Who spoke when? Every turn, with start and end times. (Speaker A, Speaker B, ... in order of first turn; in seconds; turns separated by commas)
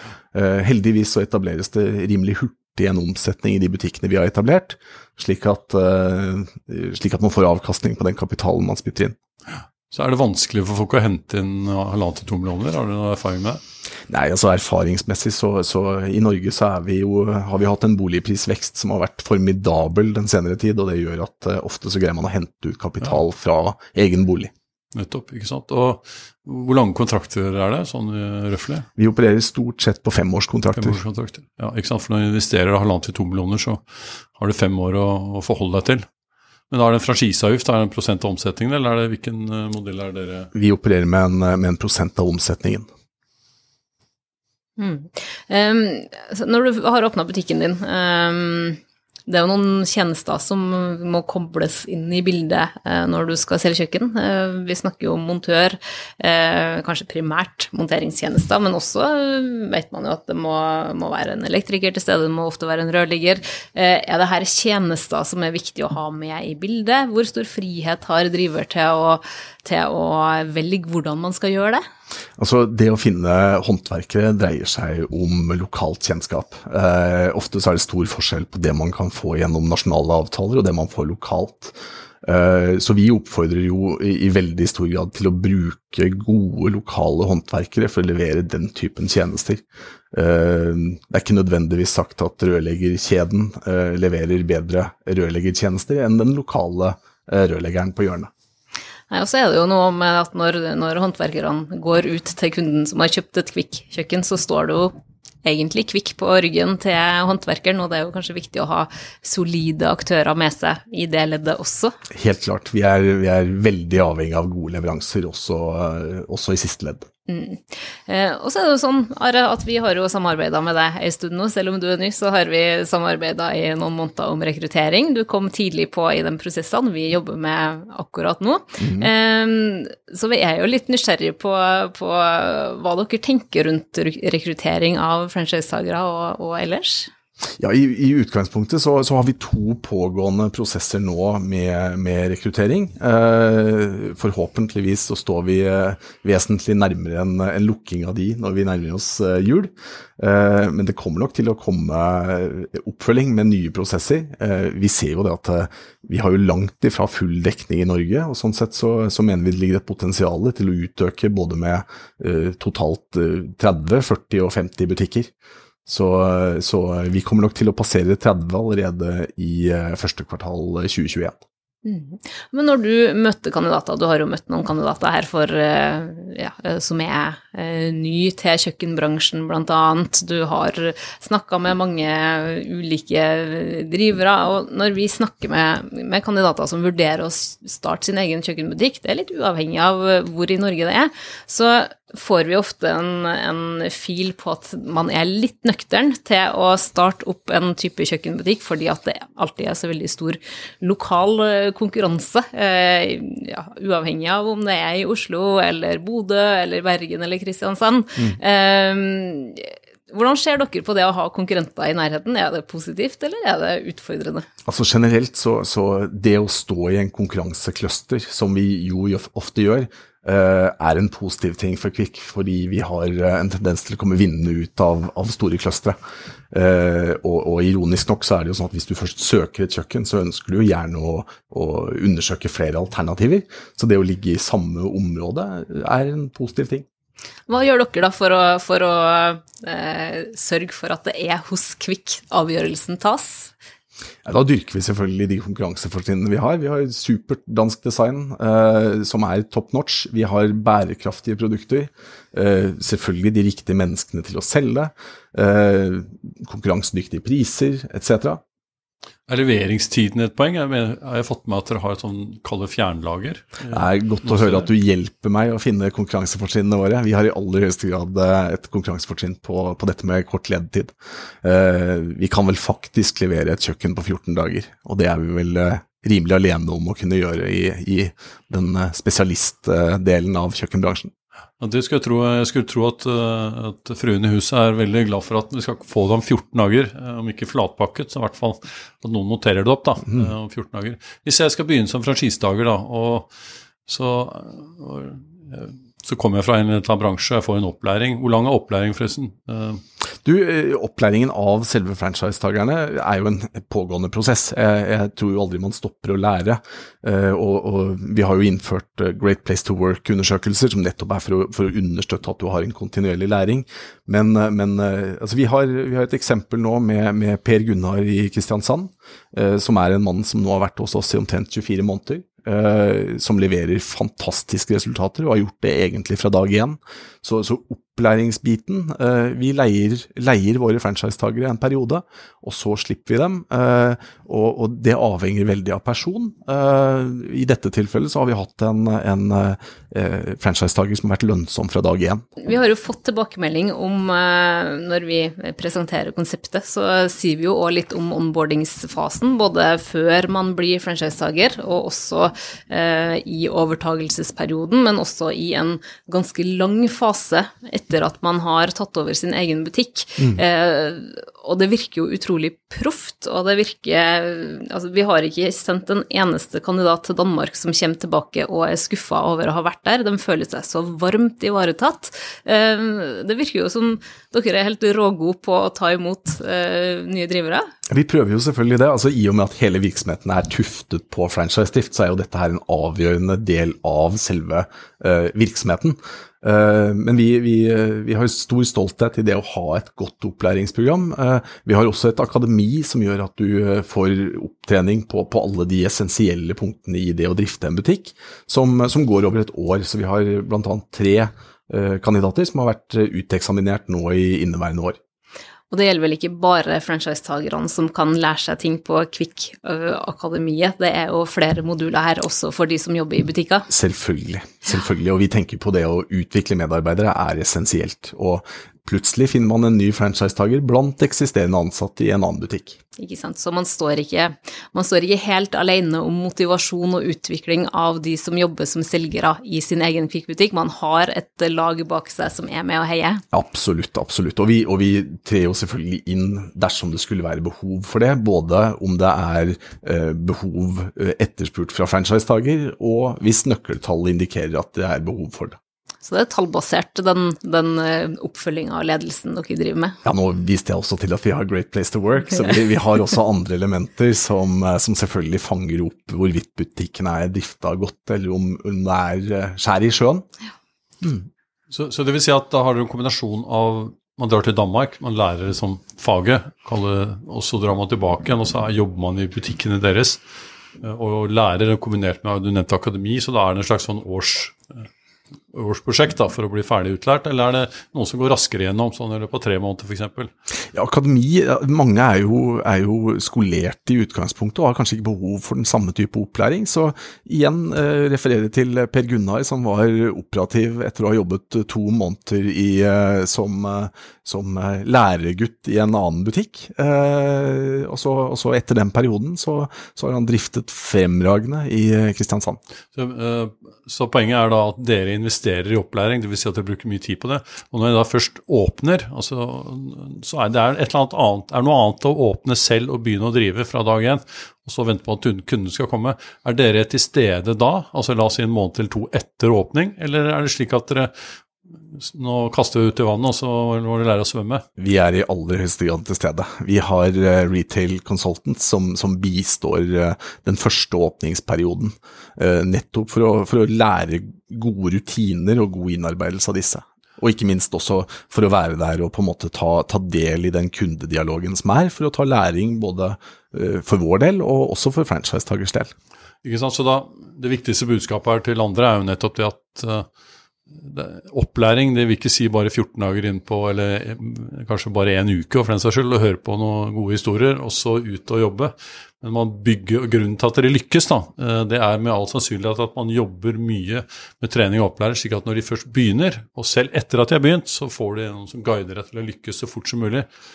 Speaker A: 0.3-9.2, Speaker B: 9.9-13.6, Speaker A: 14.1-24.5, Speaker B: 24.9-28.9, Speaker A: 29.0-31.0, Speaker B: 30.8-36.1, Speaker B: 36.7-40.5, Speaker A: 40.5-42.9, Speaker C: 44.8-71.8, Speaker A: 72.4-98.3, Speaker C: 99.1-112.0, Speaker A: 112.1-117.1, Speaker C: 117.3-137.1, Speaker A: 128.8-129.1, Speaker A: 137.6-165.3, Speaker A: 165.9-171.4, Speaker C: 171.8-214.5, Speaker A: 214.7-226.0, Speaker A: 226.5-236.9, Speaker C: 237.5-243.5, Speaker A: 244.2-258.4, Speaker B: 259.3-264.7, Speaker A: 263.7-281.1, Speaker B: 281.6-293.3, Speaker B: 293.9-299.8, Speaker A: 300.2-342.3, Speaker C: 342.4-377.7, Speaker A: 377.9-405.0, Speaker C: 405.7-413.7, Speaker A: 413.7-422.8, Speaker C: 423.0-433.2, Speaker A: 433.3-445.6, Speaker C: 446.0-450.0, Speaker A: 450.0-460.3, Speaker B: 461.7-470.2, Speaker B: 470.8-474.9, Speaker B: 475.5-480.3, Speaker A: 480.7-502.6, Speaker B: 502.9-521.1, Speaker B: 521.9-524.6, Speaker A: 524.8-545.9, Speaker B: 546.4-550.1, Speaker B: 550.7-570.3